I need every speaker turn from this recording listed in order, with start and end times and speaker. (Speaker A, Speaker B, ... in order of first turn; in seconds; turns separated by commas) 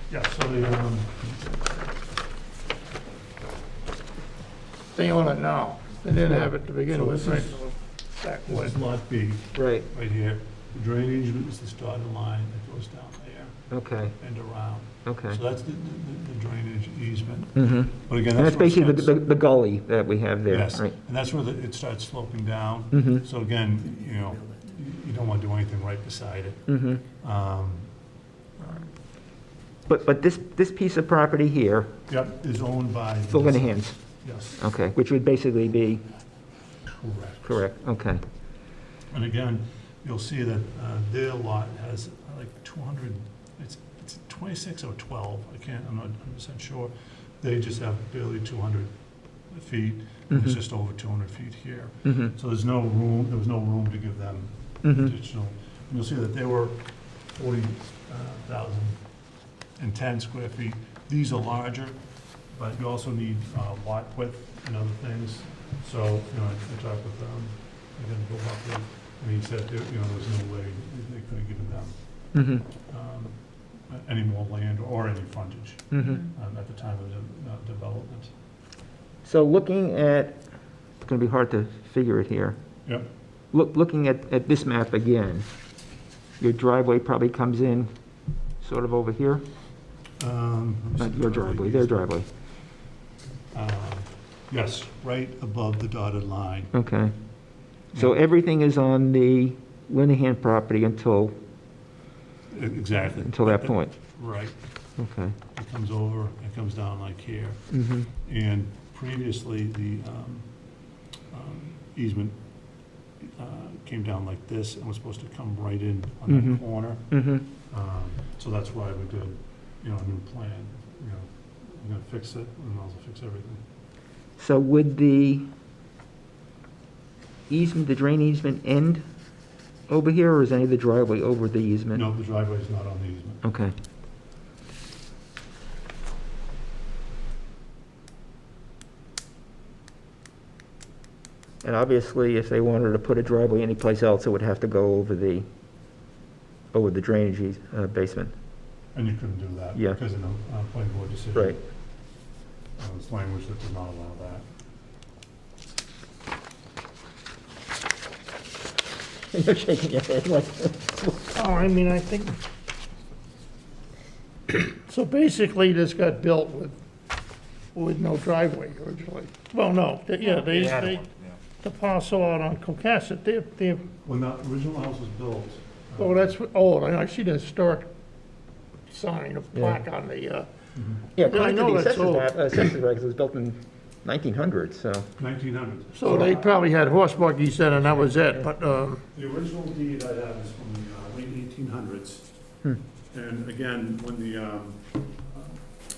Speaker A: 0.1-1.6, Speaker B: 5.0-8.8, Speaker A: 6.9-7.6, Speaker A: 8.5-13.6, Speaker C: 9.5-9.9, Speaker C: 13.7-14.2, Speaker A: 14.2-19.1, Speaker C: 15.1-15.4, Speaker C: 17.6-21.0, Speaker A: 20.5-26.6, Speaker C: 22.9-23.2, Speaker C: 26.7-27.0, Speaker A: 27.2-27.9, Speaker A: 28.6-28.9, Speaker C: 29.9-31.9, Speaker A: 32.1-34.6, Speaker C: 33.3-34.0, Speaker C: 34.6-36.0, Speaker A: 36.9-37.6, Speaker C: 37.5-38.2, Speaker A: 39.1-48.9, Speaker A: 49.5-59.0, Speaker C: 50.3-50.6, Speaker C: 52.0-52.3, Speaker C: 54.8-55.1, Speaker A: 59.8-62.0, Speaker A: 62.5-72.0, Speaker C: 72.3-72.7, Speaker A: 72.9-73.4, Speaker A: 73.9-78.3, Speaker C: 75.9-76.3, Speaker C: 79.2-80.4, Speaker C: 81.0-82.6, Speaker C: 83.5-85.5, Speaker C: 86.4-87.9, Speaker C: 88.6-89.5, Speaker A: 90.2-92.2, Speaker C: 91.0-92.3, Speaker A: 93.5-96.7, Speaker C: 96.7-97.2, Speaker C: 97.9-101.4, Speaker A: 102.5-104.5, Speaker C: 103.2-104.0, Speaker C: 105.0-105.4, Speaker A: 105.5-107.6, Speaker C: 107.7-108.1, Speaker A: 108.2-110.5, Speaker A: 111.3-112.4, Speaker A: 113.2-117.1, Speaker C: 116.3-117.5, Speaker A: 117.7-123.6, Speaker C: 124.4-125.5, Speaker C: 127.5-129.1, Speaker C: 129.9-132.0, Speaker A: 131.9-133.4, Speaker C: 133.4-133.8, Speaker C: 141.6-145.5, Speaker C: 146.7-148.3, Speaker A: 148.9-151.6, Speaker A: 152.8-154.4, Speaker C: 159.3-161.3, Speaker B: 161.3-162.4, Speaker B: 164.5-166.8, Speaker B: 167.8-171.1, Speaker B: 171.6-173.9, Speaker A: 174.0-176.3, Speaker B: 176.0-177.9, Speaker B: 178.9-180.5, Speaker A: 180.8-181.1, Speaker C: 181.2-185.1, Speaker B: 181.2-182.7, Speaker A: 185.2-186.5, Speaker B: 185.9-189.0, Speaker A: 189.1-192.3, Speaker A: 193.1-195.6